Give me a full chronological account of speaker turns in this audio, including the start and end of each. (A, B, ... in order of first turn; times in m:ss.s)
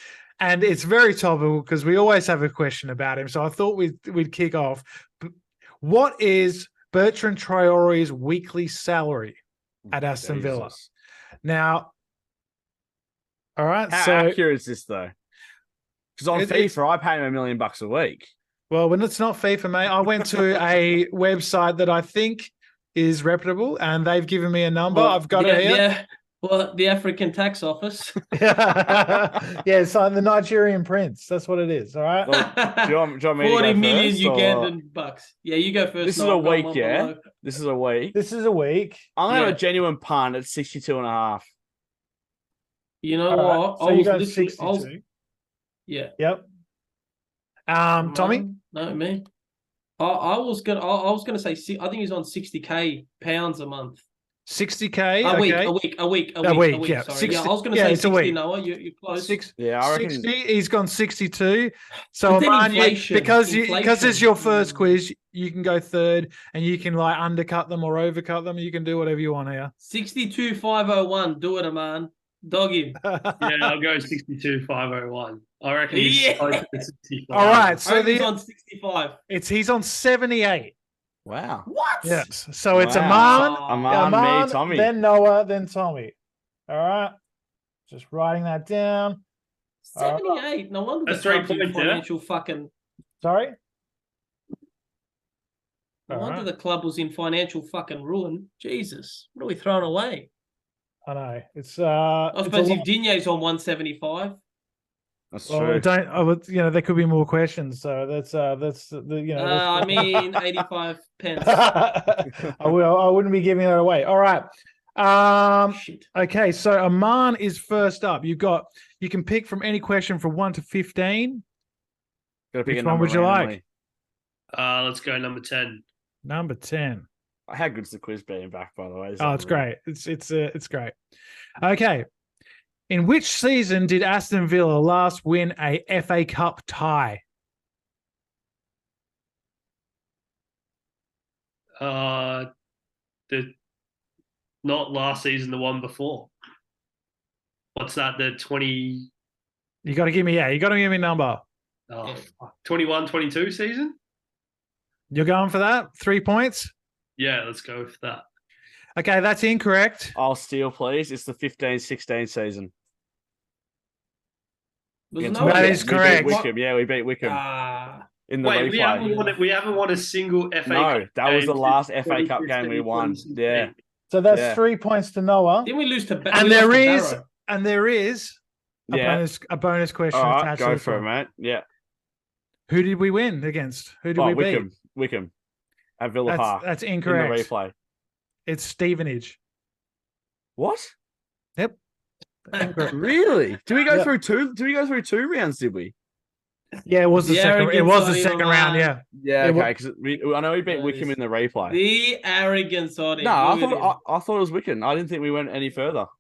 0:00.4-0:09.4 A
0:09.8-0:10.9 B
0:09.9-0:10.7 A
0:11.4-0:11.9 A
0:13.6-0:14.4 A
0:13.9-0:15.1 B
0:16.2-0:18.3 B
0:16.3-0:16.7 A
0:18.7-0:25.8 A
0:24.9-0:28.2 C
0:28.3-0:32.4 A
0:32.2-0:34.7 B
0:32.3-0:37.2 C
0:36.0-0:38.2 B
0:38.1-0:39.1 A
0:39.2-0:41.5 B
0:39.3-0:39.6 C
0:43.0-0:44.9 C
0:43.3-0:45.0 A
0:45.9-0:46.1 C
0:46.2-0:46.4 A
0:47.7-0:48.4 A
0:48.0-0:49.3 C
0:50.0-0:54.0 C
0:54.4-0:55.7 A
0:55.2-0:59.4 C
0:56.4-0:58.4 A
0:59.2-1:09.7 A
0:59.6-1:00.3 B
1:02.2-1:04.9 C
1:09.8-1:13.0 C
1:13.0-1:13.7 A
1:13.4-1:17.8 D
1:15.9-1:16.6 C
1:17.3-1:18.3 A
1:17.8-1:19.2 C
1:19.3-1:20.7 A
1:21.2-1:21.7 B
1:21.7-1:22.3 C
1:22.0-1:26.1 A
1:22.7-1:24.9 B
1:22.9-1:24.0 C
1:26.7-1:27.1 A
1:27.9-1:29.2 A
1:29.8-1:32.7 C
1:30.0-1:30.4 A
1:31.1-1:32.0 D
1:33.2-1:33.6 A
1:36.1-1:40.3 C
1:36.1-1:36.5 A
1:41.0-1:42.9 A
1:42.3-1:44.4 C
1:45.3-1:45.8 B
1:45.5-1:50.3 A
1:49.3-1:51.6 C
1:51.4-2:01.4 A
1:55.7-1:56.0 C
2:02.5-2:03.6 B
2:02.6-2:03.6 A
2:04.5-2:05.8 D
2:06.2-2:07.1 A
2:07.5-2:09.6 B
2:09.2-2:10.9 A
2:11.6-2:12.0 A
2:12.9-2:17.2 A
2:21.8-2:22.5 D
2:24.6-2:26.3 D
2:27.8-2:29.1 D
2:29.8-2:31.4 A
2:31.9-2:34.0 D
2:35.1-2:36.7 A
2:37.2-2:38.2 D
2:39.0-2:40.2 A
2:40.1-2:42.7 B
2:45.1-2:46.5 C
2:45.2-2:47.4 B
2:45.4-2:46.4 A
2:47.2-2:48.1 C
2:48.3-2:49.1 B
2:48.4-2:53.7 D
2:49.0-2:49.4 C
2:50.7-2:53.7 B
2:54.1-2:55.7 A
2:54.3-2:54.6 B
2:55.6-2:57.2 C
2:56.3-2:58.4 A
2:58.9-2:59.2 B
2:58.9-3:01.0 A
3:00.1-3:01.6 B
3:02.7-3:04.7 A
3:04.2-3:05.3 B
3:06.0-3:07.7 B
3:06.3-3:07.5 A
3:08.4-3:09.4 A
3:10.6-3:10.9 B
3:12.5-3:13.0 A
3:12.6-3:12.9 C
3:12.9-3:15.9 B
3:16.8-3:19.7 A
3:17.2-3:18.9 C
3:19.2-3:21.8 B
3:20.6-3:21.2 C
3:21.7-3:23.9 C
3:23.2-3:26.1 B